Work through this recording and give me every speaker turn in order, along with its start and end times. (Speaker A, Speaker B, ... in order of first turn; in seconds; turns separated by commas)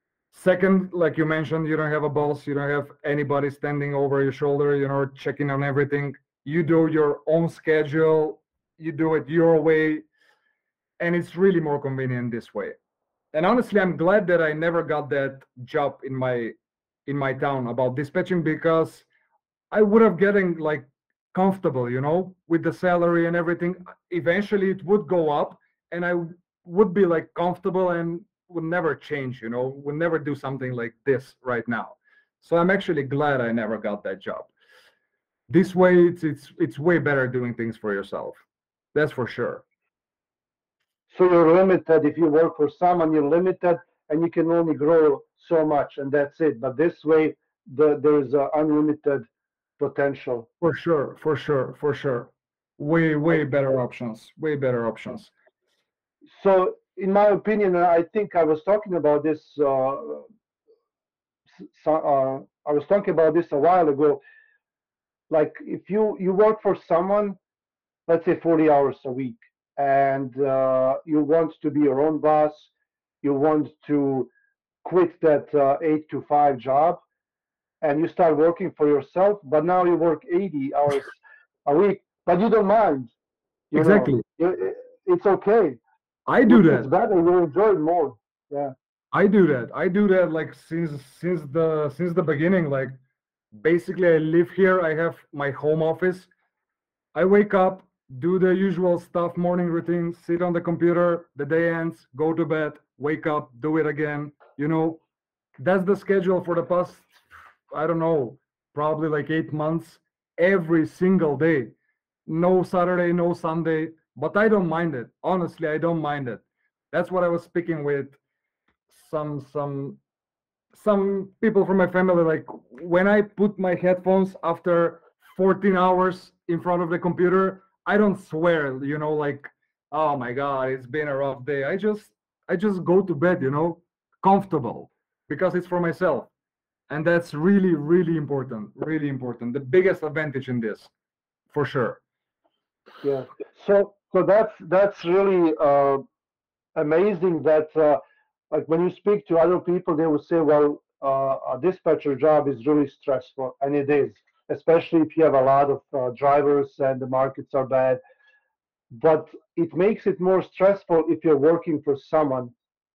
Speaker A: 0.3-10.1, Speaker A: 11.0-12.8, Speaker A: 13.3-16.6, Speaker A: 17.1-19.1, Speaker A: 19.7-34.5, Speaker A: 35.5-38.4, Speaker A: 39.0-39.6, Speaker B: 41.1-49.3, Speaker B: 49.8-50.5, Speaker A: 50.6-55.3, Speaker B: 56.4-60.2, Speaker B: 61.6-64.2, Speaker B: 65.3-67.4, Speaker B: 68.1-72.7, Speaker B: 73.2-74.3, Speaker B: 74.8-77.0, Speaker B: 77.8-83.1, Speaker B: 83.7-85.8, Speaker A: 83.8-84.2, Speaker A: 86.3-86.9, Speaker B: 86.5-88.7, Speaker A: 89.1-93.0, Speaker A: 93.5-96.3, Speaker A: 97.1-105.0, Speaker A: 105.6-111.7, Speaker A: 112.3-118.2, Speaker A: 118.9-120.0, Speaker A: 120.7-136.3, Speaker A: 136.9-140.9, Speaker A: 141.5-142.0, Speaker B: 143.0-146.0, Speaker B: 146.8-148.0, Speaker B: 148.5-158.0, Speaker B: 158.9-162.5